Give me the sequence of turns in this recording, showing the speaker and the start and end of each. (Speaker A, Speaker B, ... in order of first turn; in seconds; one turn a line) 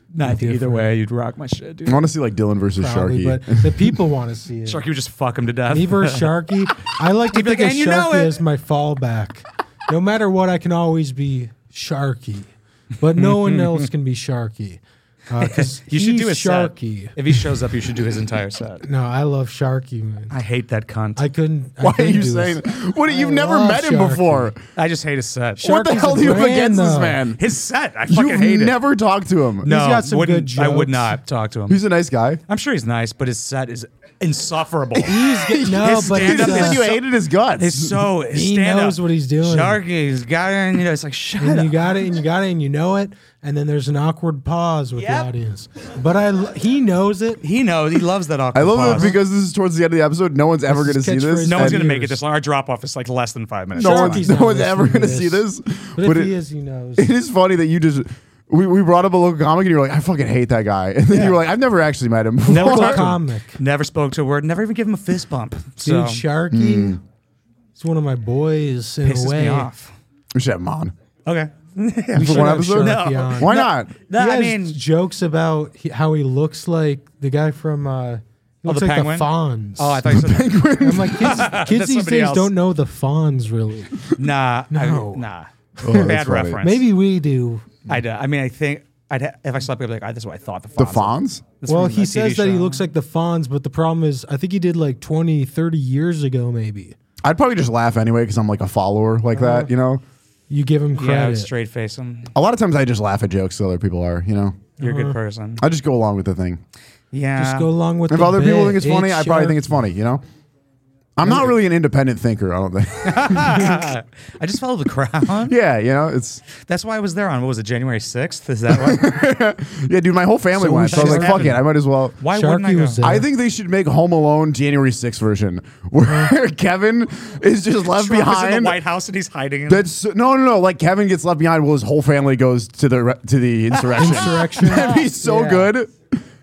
Speaker A: 0.1-2.0
Speaker B: 0.2-0.9
Speaker C: 1.9-4.0
Speaker B: 2.8-4.8
Speaker A: 4.7-6.3
Speaker B: 5.7-17.4
Speaker A: 7.3-8.4
Speaker A: 13.2-13.9
Speaker A: 15.4-18.9
Speaker B: 18.8-20.3
Speaker A: 20.3-21.2
Speaker B: 21.2-24.5
Speaker C: 21.8-24.6
Speaker A: 24.8-26.4
Speaker C: 25.6-27.4
Speaker B: 25.7-27.2
Speaker A: 27.4-28.8
Speaker C: 28.1-29.7
Speaker B: 29.6-31.2
Speaker A: 29.6-31.8
Speaker C: 31.7-32.4
Speaker A: 32.5-35.2
Speaker B: 35.0-36.8
Speaker C: 35.4-38.1
Speaker A: 35.8-37.0
Speaker A: 37.6-41.9
Speaker B: 38.3-39.8
Speaker B: 41.4-47.4
Speaker A: 45.0-45.3
Speaker A: 47.4-49.2
Speaker C: 48.5-51.8
Speaker B: 48.8-49.2
Speaker B: 50.7-52.2
Speaker A: 51.5-54.3
Speaker B: 53.8-55.5
Speaker C: 53.8-56.3
Speaker B: 56.0-57.1
Speaker C: 57.0-63.2
Speaker B: 61.1-61.4
Speaker B: 62.5-63.6
Speaker A: 62.5-66.2
Speaker B: 65.8-67.0
Speaker C: 66.5-67.0
Speaker B: 67.8-69.7
Speaker A: 69.0-69.9
Speaker C: 70.3-70.9
Speaker A: 71.3-74.8
Speaker B: 72.1-73.6
Speaker C: 72.2-73.9
Speaker B: 74.1-80.1
Speaker A: 78.7-80.6
Speaker C: 80.1-81.5
Speaker B: 80.8-84.1
Speaker A: 81.1-82.5
Speaker A: 84.2-86.8
Speaker B: 84.7-85.2
Speaker C: 85.8-86.6
Speaker B: 85.8-87.7
Speaker A: 87.9-92.8
Speaker C: 90.8-91.4
Speaker B: 91.7-97.0
Speaker C: 97.2-100.0
Speaker B: 99.3-99.7
Speaker B: 100.5-101.5
Speaker A: 101.0-102.3
Speaker C: 102.3-104.6
Speaker A: 104.8-105.6
Speaker B: 104.8-105.2
Speaker C: 105.6-106.6
Speaker A: 107.1-107.7
Speaker B: 107.4-109.8
Speaker C: 108.1-110.2
Speaker C: 111.2-113.9
Speaker B: 111.2-111.5
Speaker A: 113.0-115.6
Speaker C: 115.4-116.4
Speaker A: 116.5-119.1
Speaker C: 118.7-122.2
Speaker B: 120.5-121.6
Speaker A: 120.9-121.6
Speaker A: 122.2-123.1
Speaker B: 122.3-123.2
Speaker C: 123.0-128.8
Speaker B: 126.1-126.3
Speaker A: 127.8-129.9
Speaker C: 129.7-136.2
Speaker A: 133.7-134.6
Speaker B: 134.0-135.7